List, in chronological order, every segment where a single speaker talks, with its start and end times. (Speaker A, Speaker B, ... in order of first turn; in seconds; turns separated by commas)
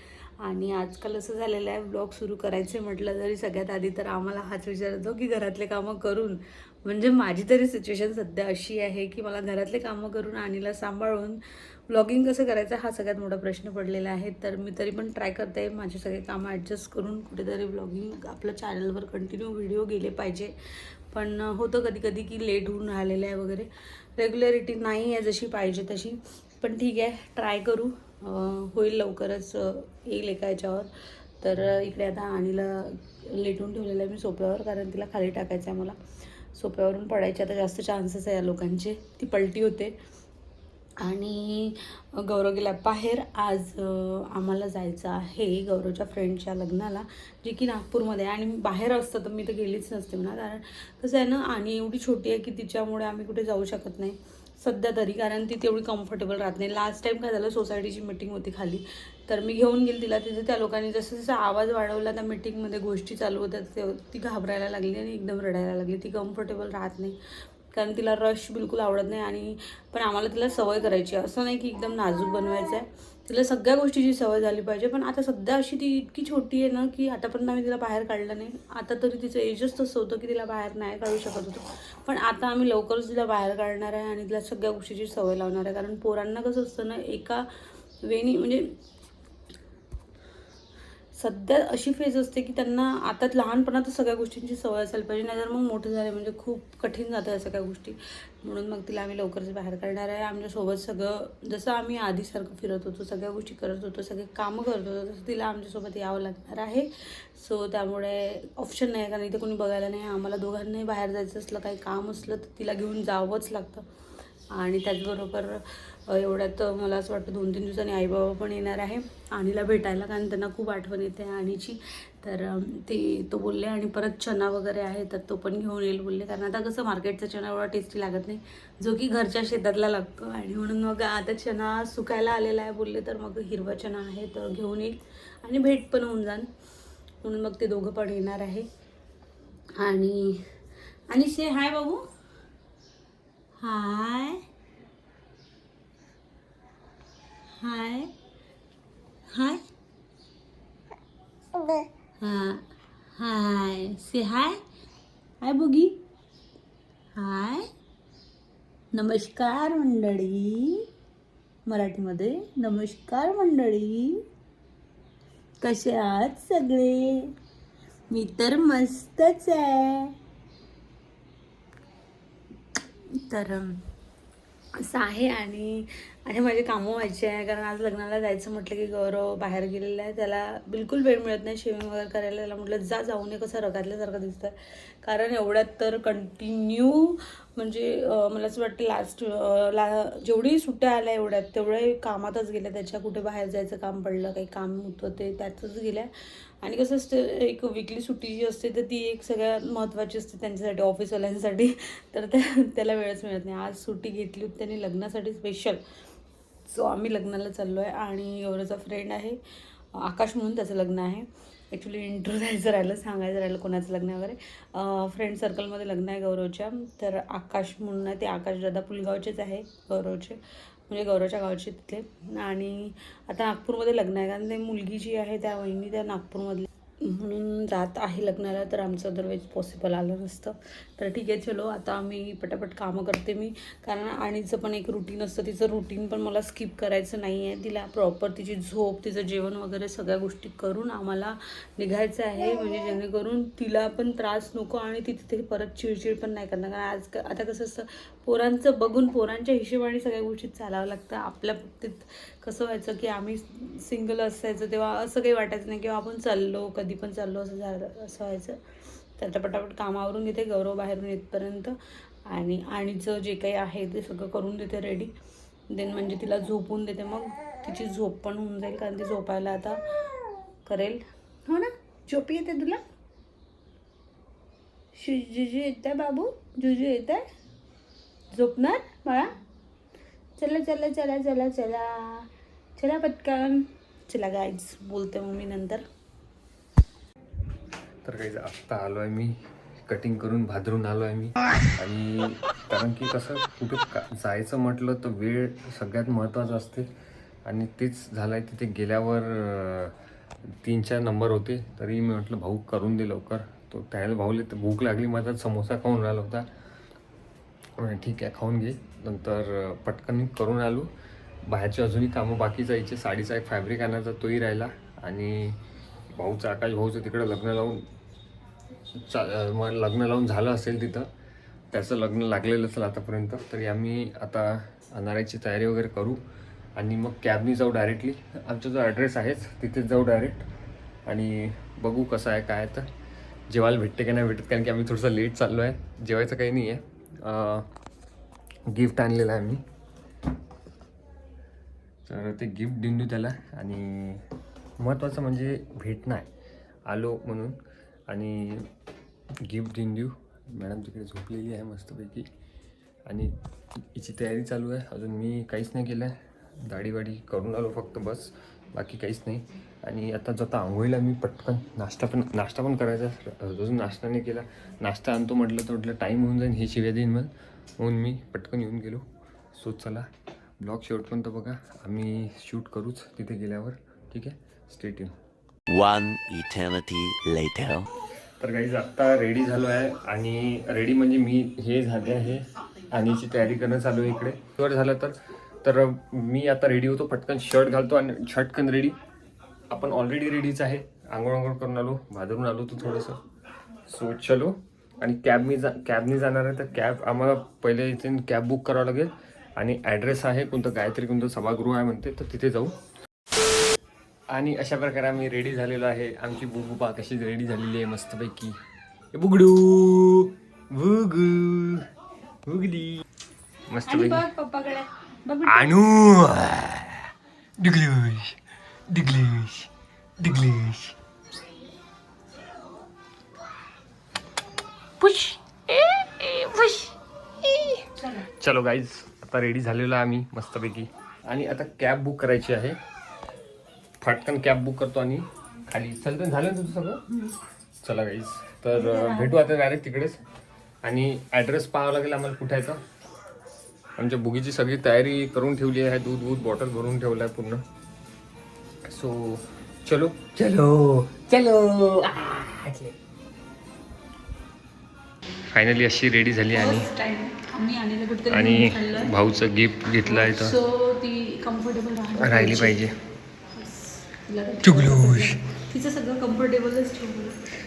Speaker A: 0.4-20.5, Speaker A: 21.1-30.9, Speaker A: 31.4-36.0, Speaker A: 36.5-40.0, Speaker A: 41.0-67.2, Speaker A: 67.7-87.5, Speaker A: 88.0-88.7, Speaker A: 91.2-113.8, Speaker A: 114.5-136.5, Speaker A: 137.2-138.7, Speaker A: 139.8-140.4, Speaker A: 141.1-142.0, Speaker A: 143.6-144.4, Speaker A: 147.6-148.1, Speaker A: 149.3-149.6, Speaker A: 152.2-152.6, Speaker A: 153.2-154.6, Speaker A: 155.4-156.0, Speaker A: 157.1-157.6, Speaker A: 158.9-160.8, Speaker A: 161.7-164.2, Speaker A: 165.6-167.3, Speaker A: 168.1-170.1, Speaker A: 173.1-173.8, Speaker A: 174.7-196.1, Speaker A: 196.6-205.8, Speaker A: 206.7-209.4, Speaker A: 209.9-258.6, Speaker A: 259.2-261.8, Speaker A: 262.3-265.1, Speaker A: 265.7-269.8, Speaker A: 270.6-272.8, Speaker A: 274.9-277.2, Speaker A: 278.3-279.3, Speaker A: 280.4-285.8, Speaker B: 288.0-289.3, Speaker B: 289.9-296.9, Speaker B: 297.4-299.9, Speaker B: 300.6-306.5, Speaker B: 307.8-310.9, Speaker B: 311.4-315.6, Speaker B: 316.1-317.9, Speaker B: 319.0-321.1, Speaker B: 321.7-326.2, Speaker B: 326.8-330.5, Speaker B: 331.1-332.9, Speaker B: 333.5-337.6, Speaker B: 338.7-339.6, Speaker B: 342.0-344.2, Speaker B: 344.8-346.2, Speaker B: 346.9-347.6, Speaker B: 348.1-348.7, Speaker B: 349.4-352.3, Speaker B: 353.1-369.0, Speaker B: 369.5-370.1, Speaker B: 370.6-375.1, Speaker C: 375.7-377.9, Speaker B: 378.4-388.9, Speaker B: 389.7-393.2, Speaker B: 393.9-402.7, Speaker B: 404.3-408.6, Speaker B: 409.1-411.9, Speaker B: 412.5-413.0, Speaker B: 413.7-414.3, Speaker A: 413.9-415.7, Speaker B: 415.4-418.4, Speaker B: 418.9-420.9, Speaker B: 425.0-426.9, Speaker B: 427.5-427.8, Speaker A: 427.9-428.3, Speaker B: 428.3-432.8, Speaker B: 434.0-437.0, Speaker A: 437.1-437.3, Speaker B: 437.8-440.2, Speaker A: 438.7-439.5, Speaker B: 440.8-442.8, Speaker B: 444.0-447.6, Speaker B: 448.9-452.9, Speaker B: 455.5-456.9, Speaker A: 456.5-459.1, Speaker B: 458.3-460.5, Speaker A: 460.0-462.8, Speaker B: 462.2-462.9, Speaker A: 463.6-467.4, Speaker B: 464.6-465.4